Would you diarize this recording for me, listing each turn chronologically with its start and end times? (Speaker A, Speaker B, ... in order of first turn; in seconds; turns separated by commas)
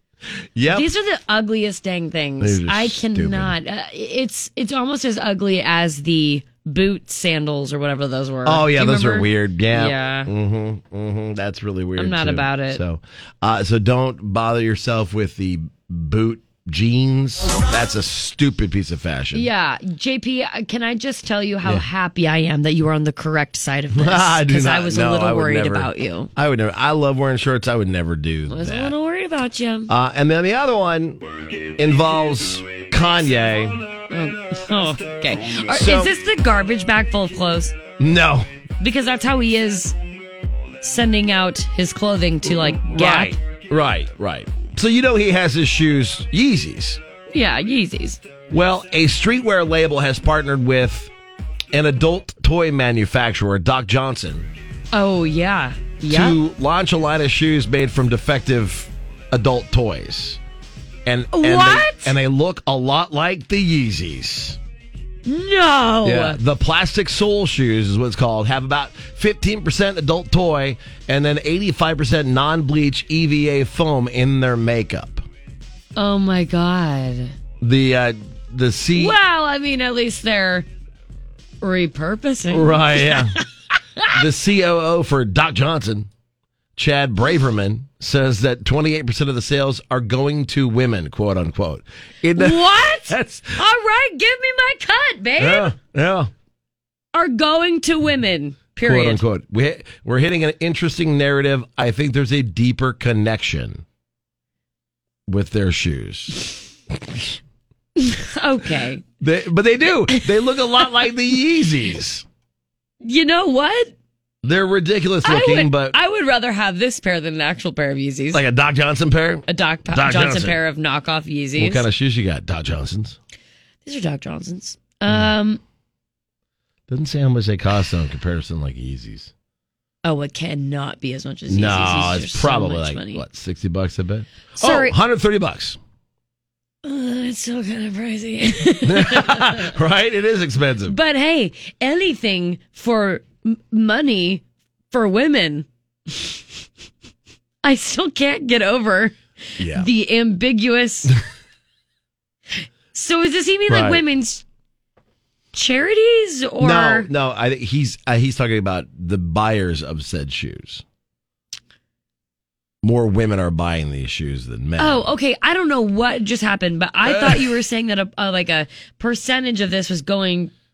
Speaker A: 0.6-0.9, Speaker B: 0.7-10.3, Speaker A: 2.4-3.6, Speaker A: 8.4-19.5, Speaker B: 12.0-12.8, Speaker B: 19.3-26.3, Speaker A: 23.9-28.9, Speaker B: 28.5-29.9, Speaker A: 29.9-31.2, Speaker A: 31.8-33.8, Speaker B: 34.1-37.8, Speaker A: 35.6-36.1, Speaker A: 38.0-38.5, Speaker B: 38.8-39.9, Speaker B: 40.8-43.4, Speaker A: 42.5-47.0, Speaker B: 47.3-48.2, Speaker A: 48.5-51.1, Speaker A: 51.7-54.5, Speaker B: 54.9-56.4, Speaker A: 56.1-60.4, Speaker A: 61.0-64.6, Speaker B: 61.3-62.1, Speaker B: 65.3-66.4, Speaker A: 66.0-75.2, Speaker B: 76.0-77.3, Speaker A: 77.6-79.2, Speaker B: 79.0-80.7, Speaker B: 81.6-83.3, Speaker A: 82.5-83.4, Speaker A: 84.1-86.1, Speaker A: 86.8-93.6, Speaker B: 92.4-95.8, Speaker A: 95.4-96.3, Speaker B: 97.1-99.2, Speaker A: 98.8-103.8, Speaker A: 105.3-107.2, Speaker B: 108.0-109.0, Speaker A: 109.2-112.2, Speaker B: 113.0-113.9, Speaker A: 114.4-116.0, Speaker B: 115.2-118.4, Speaker A: 118.3-120.6, Speaker B: 119.5-121.9, Speaker A: 121.6-123.2, Speaker B: 123.8-125.6, Speaker A: 126.9-129.3, Speaker B: 130.0-133.2, Speaker A: 131.5-135.8, Speaker B: 134.6-135.0, Speaker B: 136.8-139.7, Speaker A: 138.8-141.0, Speaker B: 140.9-145.7, Speaker B: 147.6-151.2, Speaker A: 149.6-149.9, Speaker B: 152.9-154.4, Speaker A: 153.7-154.0, Speaker B: 155.5-157.1, Speaker A: 156.6-160.8, Speaker A: 162.8-165.1, Speaker B: 164.8-170.5, Speaker A: 167.0-167.5